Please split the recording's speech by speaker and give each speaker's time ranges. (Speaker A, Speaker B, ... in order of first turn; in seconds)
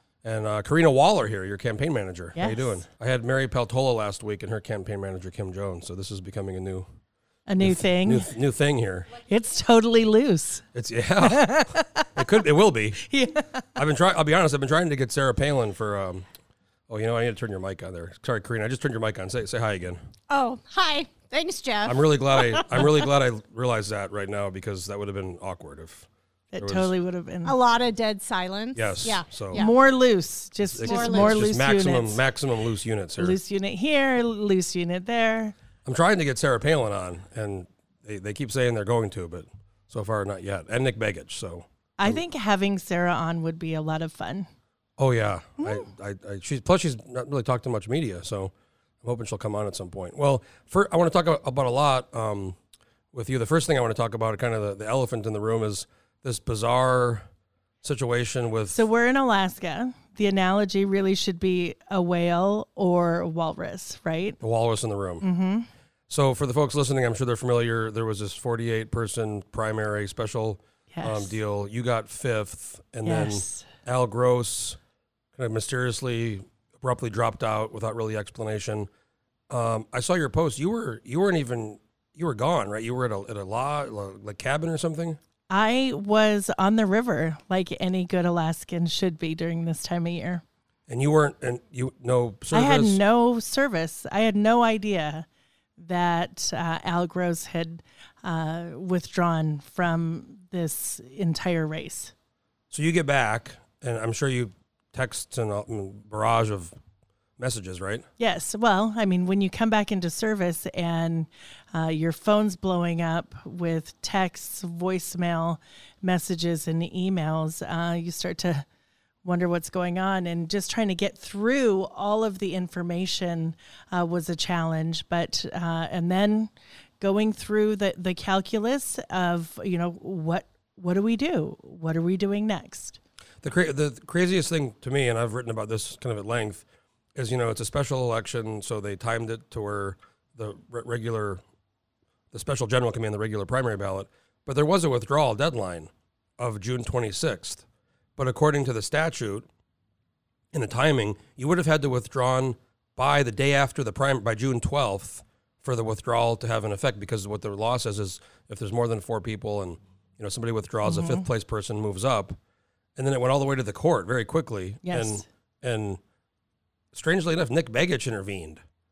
Speaker A: 0.2-6.9, 7.6-9.1, 10.7-13.0, 13.8-16.2, 16.9-20.0, 21.8-26.9, 28.8-29.6, 30.7-33.4, 35.9-42.2, 45.0-52.6, 53.1-57.3, 57.8-58.9, 64.4-65.2, 66.1-74.8, 75.3-78.9, 79.5-85.2, 90.9-93.0, 102.7-106.8, 107.4-108.1, 133.4-136.6, 137.2-141.4, 142.3-147.7, 148.2-149.5, 150.5-162.4, 163.0-166.0, 166.9-168.6
Speaker B: 2.4-2.8, 7.5-8.3, 9.2-10.7, 11.2-12.1, 13.0-13.7, 26.5-27.5, 29.5-32.2, 33.2-35.5, 42.0-44.5, 58.7-64.4, 65.2-65.7, 70.9-71.3, 73.0-73.7, 85.5-90.4, 92.5-95.3, 95.8-102.1, 108.2-118.7, 119.2-133.0, 160.9-161.3, 164.8-165.2
Speaker C: 20.3-22.8, 27.4-29.7, 30.8-31.4